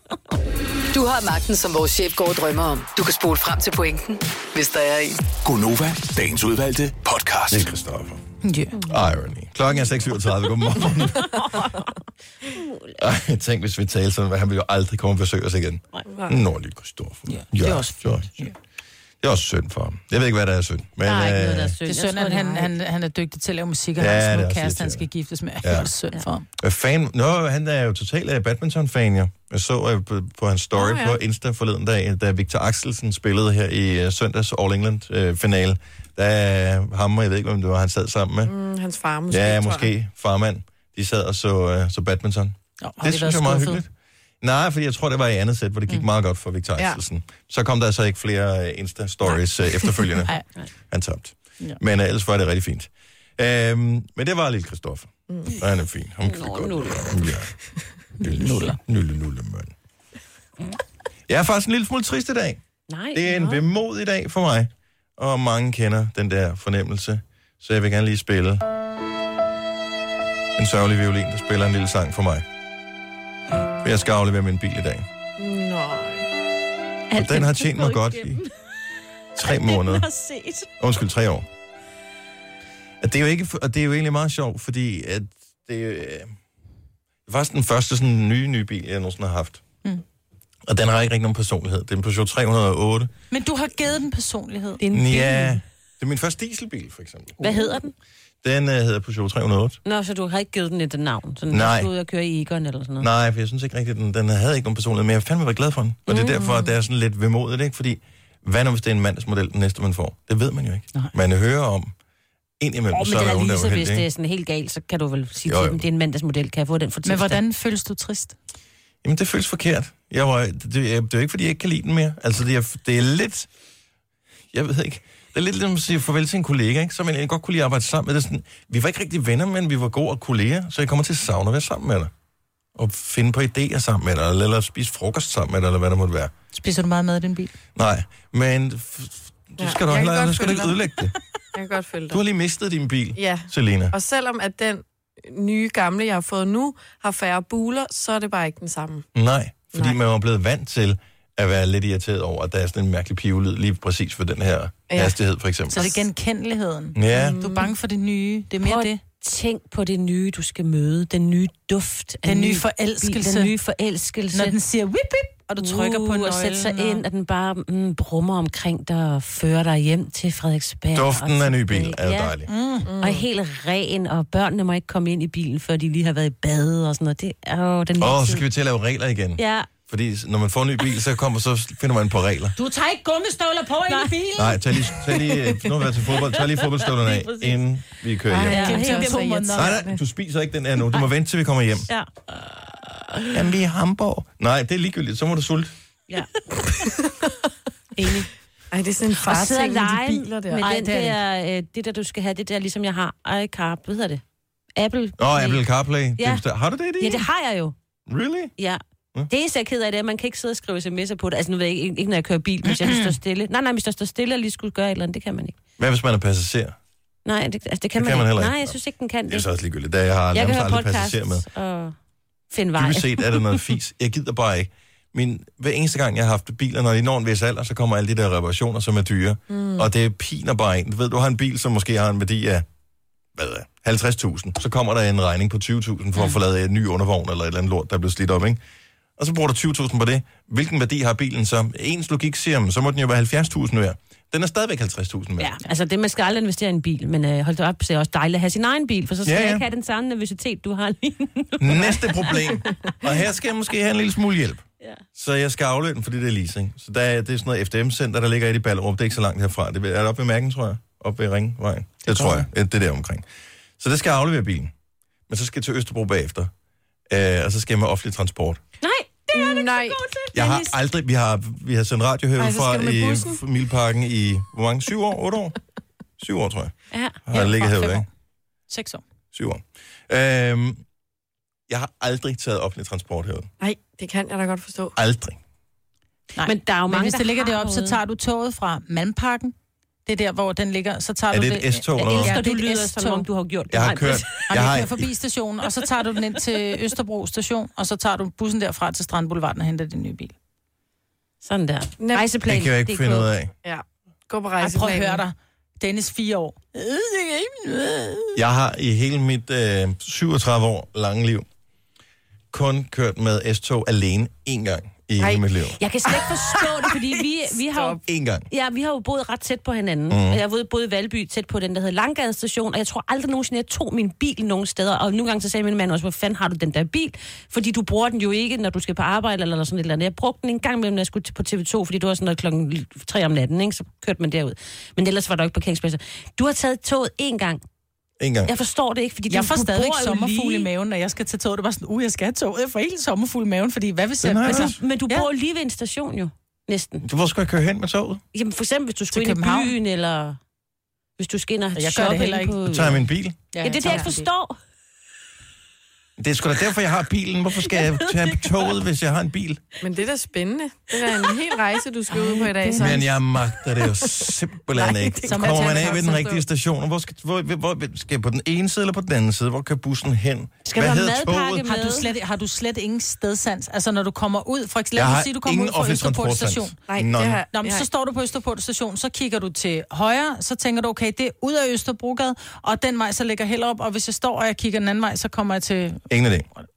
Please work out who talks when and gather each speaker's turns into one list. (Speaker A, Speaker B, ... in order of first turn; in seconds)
Speaker A: 0.9-5.2
Speaker B: 5.4-7.7
Speaker C: 7.5-8.2, 8.8-11.4, 13.0-18.5, 19.2-21.8, 24.0-25.1, 25.6-25.9, 26.6-38.5, 39.3-43.9, 44.4-50.3, 50.9-57.5, 58.2-59.7, 61.3-62.6, 63.1-68.6, 70.5-72.4, 73.8-75.0, 77.1-78.4, 79.3-80.1, 80.8-81.5, 83.0-86.3, 87.3-89.6, 90.7-93.1, 94.9-97.7, 98.4-99.8, 101.5-101.9, 103.0-111.9, 112.6-114.0, 115.4-115.8, 119.0-123.5, 124.5-132.1, 132.7-136.3, 137.7-141.1, 142.1-143.9, 149.1-156.0, 156.9-157.4, 170.9-172.5, 178.0-182.5, 184.4-188.6, 189.5-191.9, 193.3-195.7, 205.2-207.3, 208.1-208.5, 215.8-216.8, 217.9-218.8, 219.3-221.4, 222.7-232.6, 233.3-238.6, 239.2-245.6, 249.2-249.6, 251.6-254.6, 255.1-263.2, 263.8-264.7, 265.3-266.5, 267.1-268.6, 270.3-275.6, 276.2-276.7, 277.2-278.1, 279.3-280.8, 281.7-283.5, 284.9-285.4, 291.3-292.4, 293.7-295.0, 302.4-303.5, 308.4-311.4, 312.5-315.8, 318.0-318.5, 320.1-320.4, 338.2-338.5, 344.2-344.8, 347.0-348.2, 352.6-353.4, 356.2-359.6, 362.8-371.6, 374.9-377.4, 386.1-386.5
Speaker D: 8.4-8.8, 17.3-18.5, 21.8-26.4, 42.8-43.8, 58.2-58.8, 93.3-94.8, 117.0-118.3, 136.5-137.5, 155.7-159.0, 162.2-163.5, 164.3-167.0, 172.5-172.9, 182.6-184.6, 188.5-189.8, 200.5-201.2, 212.7-213.1, 277.3-278.1, 278.7-279.0, 286.4-289.5, 290.1-293.2, 294.5-300.3, 304.6-308.4, 339.3-345.3, 349.1-349.7, 351.8-352.6, 353.5-354.3, 362.1-362.9, 365.3-366.2, 371.6-376.7, 377.5-386.0
Speaker E: 11.1-11.9, 12.5-12.9, 21.0-22.7, 56.2-57.1, 62.9-63.6, 77.1-78.5, 79.4-80.7, 94.8-95.5, 97.4-97.9, 99.8-103.1, 106.1-106.4, 112.9-117.4, 158.6-164.6, 165.6-172.3, 173.0-178.4, 179.4-179.7, 183.9-184.3, 186.6-187.6, 188.5-189.5, 197.9-198.3, 199.2-204.2, 204.8-205.6, 206.2-206.4, 207.0-207.7, 208.6-215.6, 217.2-219.4, 220.3-221.9, 222.5-223.6, 245.4-252.6, 268.8-270.7, 276.9-277.2, 286.4-288.0, 291.9-294.5, 301.4-303.3, 315.8-337.6, 338.4-340.7, 344.4-347.1, 348.3-350.4, 351.2-353.0, 353.6-354.6, 357.7-358.5, 370.6-372.1
Speaker F: 16.1-16.4, 30.7-31.2, 38.5-39.9, 75.4-76.3, 106.2-106.7, 139.6-140.8, 141.5-142.2, 143.2-149.1, 154.9-155.2, 157.1-157.7, 172.8-173.2, 188.3-190.0, 198.7-200.6, 229.5-229.9, 269.3-270.0, 272.4-273.4, 283.6-284.9, 302.0-302.3, 303.6-305.2, 315.2-315.4, 316.1-318.0, 359.8-363.1, 363.8-366.4, 376.9-377.9